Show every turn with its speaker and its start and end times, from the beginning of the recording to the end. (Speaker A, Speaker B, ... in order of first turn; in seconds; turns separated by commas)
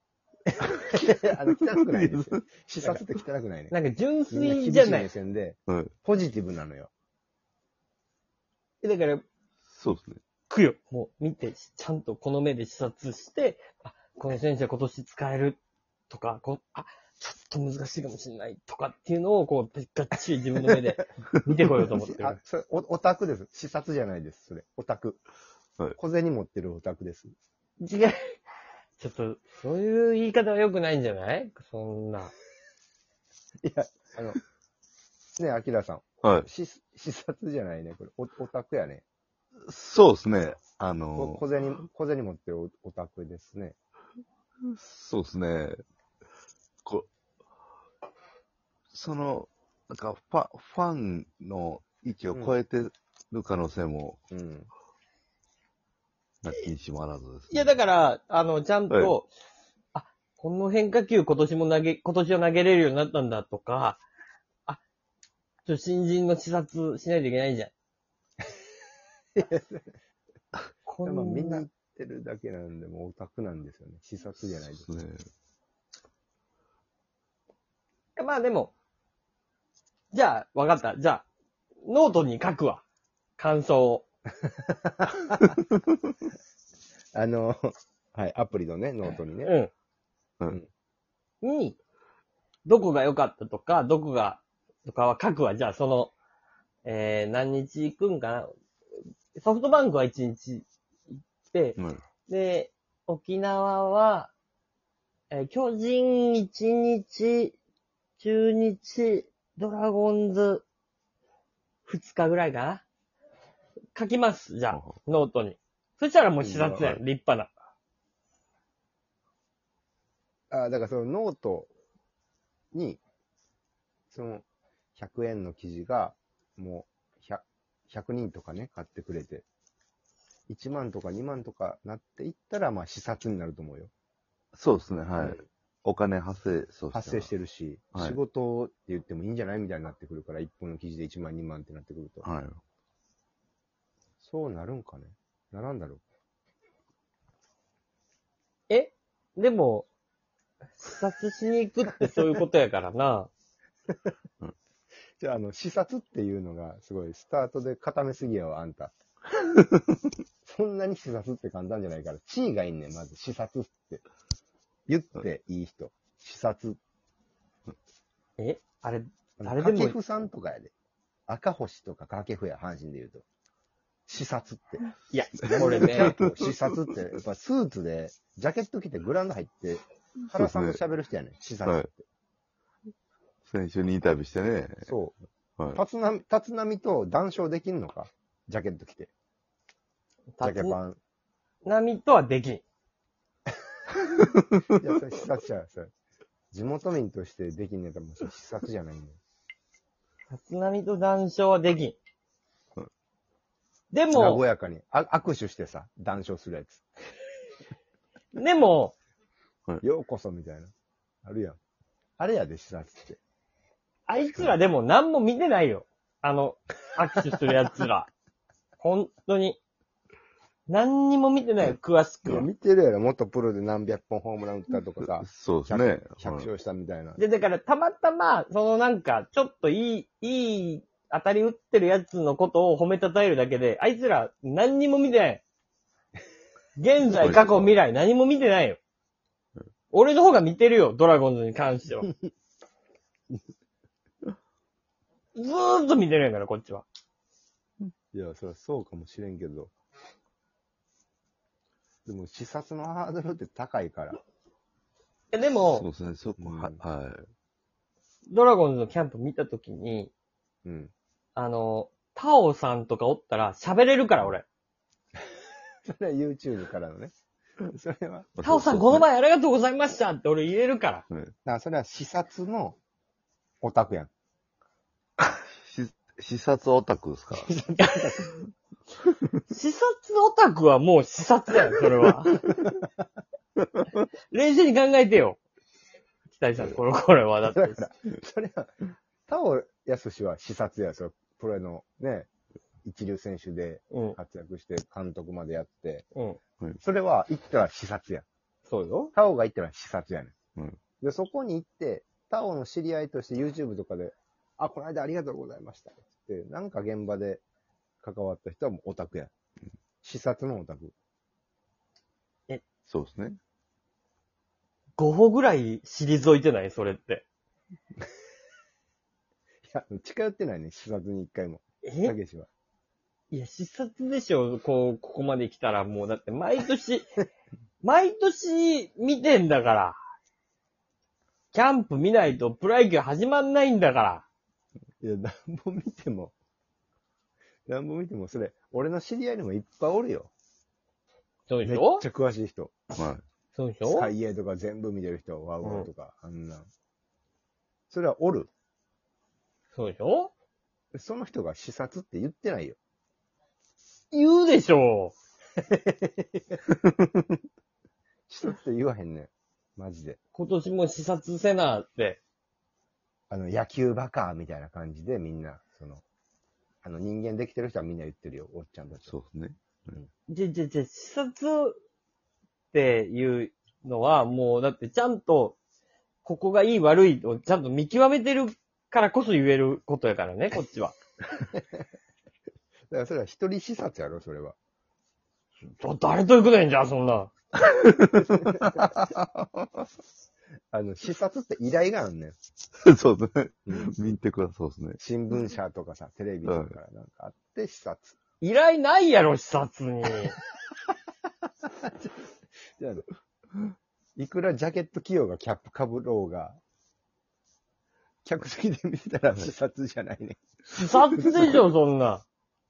Speaker A: 0.6-3.8, Speaker B: 1.9-2.4, Speaker C: 3.7-5.1, Speaker A: 4.3-6.9, Speaker C: 8.8-9.2, Speaker B: 9.7-10.2, Speaker C: 10.5-22.4, Speaker A: 21.9-25.2, Speaker A: 26.0-27.3, Speaker C: 27.8-28.3, Speaker C: 29.0-32.3, Speaker A: 33.6-34.4, Speaker A: 35.4-39.0, Speaker B: 36.2-36.5, Speaker B: 39.7-41.4, Speaker A: 41.2-43.8, Speaker B: 44.7-45.8, Speaker B: 48.9-54.2, Speaker A: 52.3-52.5, Speaker A: 54.3-54.7, Speaker B: 56.4-57.7, Speaker C: 57.5-59.3, Speaker C: 59.9-64.0, Speaker C: 65.7-67.7, Speaker A: 69.4-69.8, Speaker C: 70.8-71.7, Speaker A: 71.0-74.8, Speaker B: 74.8-75.2, Speaker C: 78.2-78.7, Speaker C: 80.1-81.2, Speaker C: 81.8-82.8, Speaker C: 83.4-84.1, Speaker A: 84.6-85.6, Speaker A: 87.1-89.5, Speaker C: 89.4-89.7, Speaker C: 91.4-91.8, Speaker C: 92.7-96.1, Speaker C: 96.8-98.5, Speaker C: 99.3-104.3, Speaker C: 105.3-107.6, Speaker C: 108.2-110.7, Speaker C: 111.9-112.8, Speaker C: 113.9-117.5, Speaker B: 114.7-115.0, Speaker A: 116.4-117.0, Speaker A: 120.5-121.7, Speaker A: 122.7-123.0, Speaker A: 124.1-124.5, Speaker A: 125.0-129.5, Speaker A: 130.5-133.9, Speaker B: 134.5-137.3, Speaker A: 135.2-135.4, Speaker A: 136.9-142.3, Speaker B: 137.9-138.2, Speaker B: 142.2-142.6, Speaker A: 144.2-146.0, Speaker C: 148.7-149.9, Speaker C: 150.8-153.3, Speaker A: 155.2-158.9, Speaker A: 160.4-164.0, Speaker A: 164.9-166.8, Speaker C: 168.4-170.0, Speaker A: 169.4-170.7, Speaker A: 171.3-173.2, Speaker A: 174.1-182.1, Speaker C: 175.1-176.2, Speaker B: 175.5-176.6, Speaker B: 180.4-180.8, Speaker B: 183.5-184.9, Speaker A: 184.9-185.2, Speaker A: 185.7-189.1, Speaker C: 190.3-190.8, Speaker A: 190.4-191.0, Speaker C: 191.6-192.6, Speaker A: 194.7-195.9, Speaker A: 196.5-199.2, Speaker C: 200.3-202.0, Speaker C: 203.9-204.4, Speaker A: 204.1-206.8, Speaker C: 208.3-209.0, Speaker A: 209.8-210.7, Speaker A: 211.2-211.6, Speaker A: 212.2-213.2, Speaker C: 214.1-218.1, Speaker A: 214.2-214.6, Speaker C: 218.8-219.6, Speaker C: 220.7-222.5, Speaker A: 222.2-227.2, Speaker B: 225.2-226.5, Speaker C: 227.2-235.4, Speaker C: 236.8-238.8, Speaker B: 237.1-237.8, Speaker C: 239.9-242.1, Speaker C: 245.3-246.9, Speaker A: 248.1-249.7, Speaker A: 252.1-254.2, Speaker C: 255.3-255.9, Speaker B: 255.7-257.3, Speaker A: 256.4-256.8, Speaker C: 258.3-260.1, Speaker A: 260.6-260.9, Speaker C: 261.4-264.4, Speaker A: 265.9-268.3, Speaker B: 268.4-269.1, Speaker C: 268.4-271.1, Speaker A: 271.4-272.8, Speaker A: 273.6-274.1, Speaker B: 275.4-277.5, Speaker A: 277.4-278.3, Speaker C: 277.8-278.2, Speaker C: 279.5-282.4, Speaker A: 282.3-282.8, Speaker C: 284.3-285.4, Speaker C: 286.3-287.8, Speaker A: 287.5-288.7, Speaker A: 289.3-292.3, Speaker A: 292.9-296.1, Speaker C: 293.9-294.2, Speaker A: 296.8-298.3, Speaker C: 298.7-299.1, Speaker A: 299.1-300.3, Speaker A: 301.0-307.4, Speaker A: 308.0-309.3, Speaker A: 310.0-310.9, Speaker B: 312.9-313.4, Speaker C: 315.0-317.3, Speaker A: 319.6-322.5, Speaker C: 321.8-322.2, Speaker C: 323.3-327.2, Speaker C: 327.8-330.0, Speaker C: 331.5-334.3, Speaker A: 335.0-336.3, Speaker A: 337.7-340.3, Speaker C: 341.5-342.1, Speaker A: 341.6-342.8, Speaker B: 343.0-343.2, Speaker C: 343.5-344.1, Speaker A: 343.9-346.7, Speaker C: 345.6-345.9, Speaker A: 347.9-348.5, Speaker C: 349.7-350.3, Speaker A: 350.9-352.8, Speaker C: 354.1-355.1, Speaker A: 355.6-356.6, Speaker A: 358.3-360.2, Speaker C: 360.3-362.2, Speaker A: 363.3-366.0, Speaker A: 366.8-369.1, Speaker B: 369.1-369.9, Speaker C: 370.3-371.8, Speaker C: 372.7-375.6, Speaker C: 376.2-381.0, Speaker A: 382.9-384.6, Speaker C: 385.7-387.3, Speaker B: 387.6-389.5, Speaker A: 388.1-389.1, Speaker A: 390.7-392.4, Speaker B: 392.8-395.0, Speaker A: 393.7-393.9, Speaker A: 395.0-398.2, Speaker B: 396.4-396.8, Speaker C: 398.4-400.3, Speaker A: 401.6-403.1, Speaker A: 404.2-406.6, Speaker A: 408.2-410.4, Speaker C: 410.6-412.2, Speaker A: 410.9-411.6